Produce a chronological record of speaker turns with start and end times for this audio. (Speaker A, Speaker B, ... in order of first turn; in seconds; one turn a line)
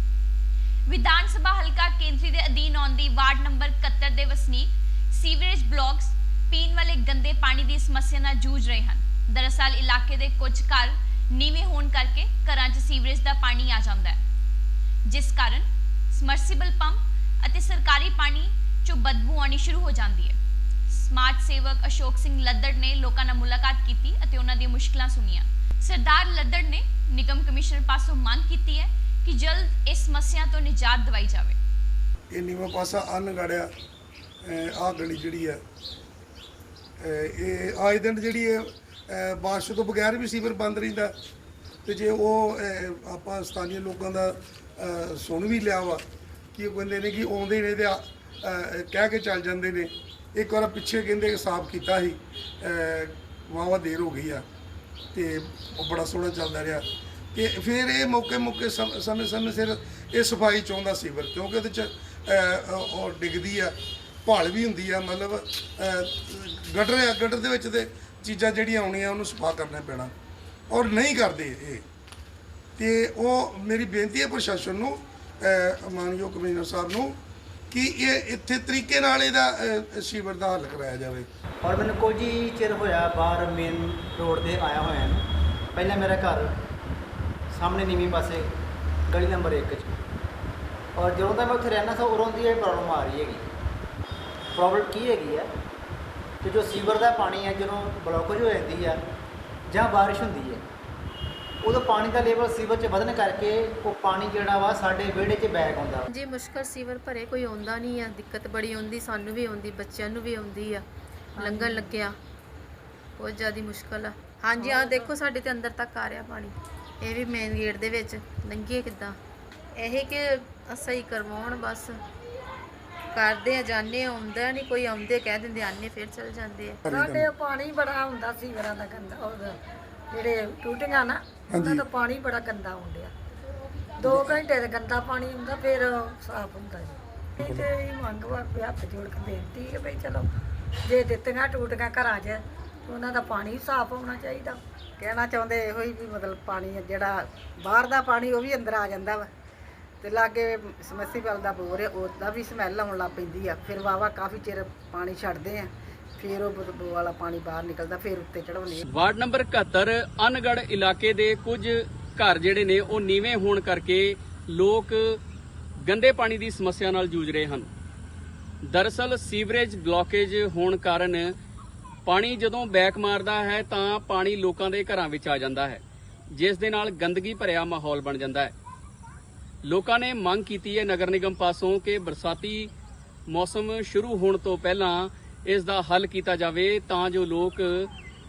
Speaker A: 0.9-14.2
Speaker A: 15.1-20.4
Speaker A: 20.9-31.6
Speaker B: 32.3-33.7
Speaker B: 34.4-35.6
Speaker B: 37.0-41.1
Speaker B: 41.8-54.4
Speaker B: 55.1-70.1
Speaker B: 70.7-71.8
Speaker B: 72.8-77.2
Speaker B: 77.7-81.3
Speaker C: 81.6-85.2
Speaker C: 85.7-86.5
Speaker C: 87.5-88.5
Speaker C: 89.1-89.9
Speaker C: 90.9-93.4
Speaker C: 94.5-95.5
Speaker C: 96.4-99.0
Speaker C: 99.7-100.6
Speaker C: 101.6-106.1
Speaker D: 106.1-110.8
Speaker D: 111.4-112.1
Speaker E: 111.4-111.9
Speaker D: 113.2-119.2
Speaker E: 114.6-115.1
Speaker D: 119.8-121.9
Speaker D: 123.1-126.8
Speaker B: 126.8-127.3
Speaker E: 126.9-129.5
Speaker E: 130.1-133.1
Speaker B: 131.5-131.8
Speaker E: 134.0-140.3
Speaker B: 134.1-134.3
Speaker B: 137.4-137.7
Speaker E: 140.8-149.3
Speaker E: 150.0-158.8
Speaker F: 158.8-165.2
Speaker F: 165.8-167.7
Speaker F: 168.6-171.3
Speaker F: 172.1-175.8
Speaker F: 176.3-178.5
Speaker F: 179.7-182.7
Speaker F: 183.3-187.9